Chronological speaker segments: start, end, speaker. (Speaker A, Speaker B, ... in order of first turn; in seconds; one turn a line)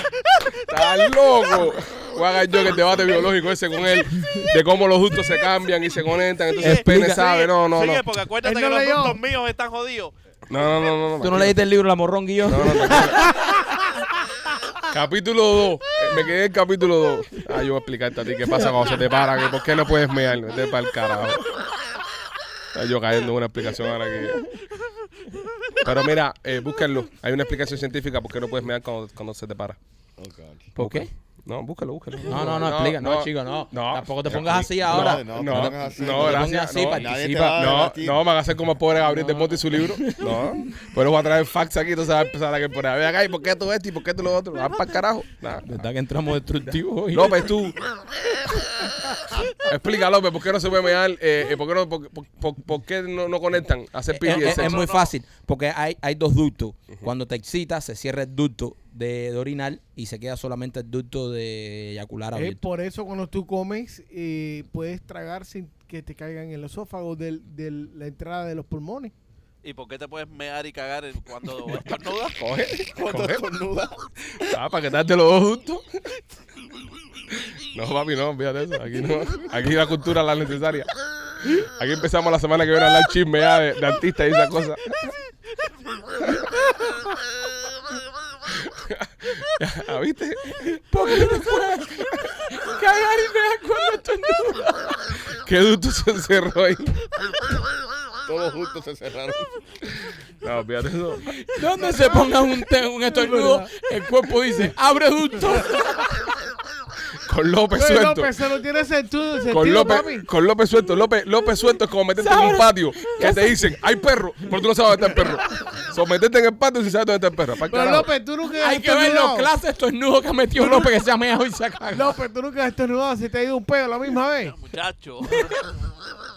Speaker A: 0.6-8.0
Speaker B: 6.5-10.1
Speaker C: 6.6-7.2
Speaker D: 8.4-9.2
Speaker A: 10.5-11.6
Speaker C: 11.2-13.3
Speaker A: 12.5-13.3
Speaker A: 14.9-21.5
Speaker A: 22.7-24.5
Speaker A: 25.8-29.8
Speaker E: 30.2-30.7
Speaker C: 30.8-31.1
Speaker A: 30.8-45.8
Speaker C: 32.3-37.7
Speaker E: 34.3-38.2
Speaker C: 39.0-40.7
Speaker C: 45.6-47.5
Speaker A: 47.1-47.8
Speaker A: 49.4-54.9
Speaker C: 54.1-62.6
Speaker B: 54.2-55.1
Speaker D: 62.4-69.1
Speaker B: 69.6-72.4
Speaker A: 72.4-73.4
Speaker E: 72.9-74.5
Speaker A: 74.4-75.8
Speaker A: 77.3-80.9
Speaker A: 81.4-85.1
Speaker A: 86.3-86.7
Speaker A: 88.5-91.5
Speaker C: 90.7-95.0
Speaker A: 95.3-97.1
Speaker E: 98.2-99.6
Speaker A: 100.4-101.3
Speaker C: 101.3-106.1
Speaker D: 101.8-102.3
Speaker D: 103.1-103.7
Speaker A: 107.2-108.4
Speaker D: 107.7-110.3
Speaker A: 109.5-118.1
Speaker C: 112.2-113.7
Speaker D: 117.7-119.5
Speaker C: 118.6-122.2
Speaker D: 120.6-120.9
Speaker D: 121.9-124.6
Speaker B: 124.4-125.7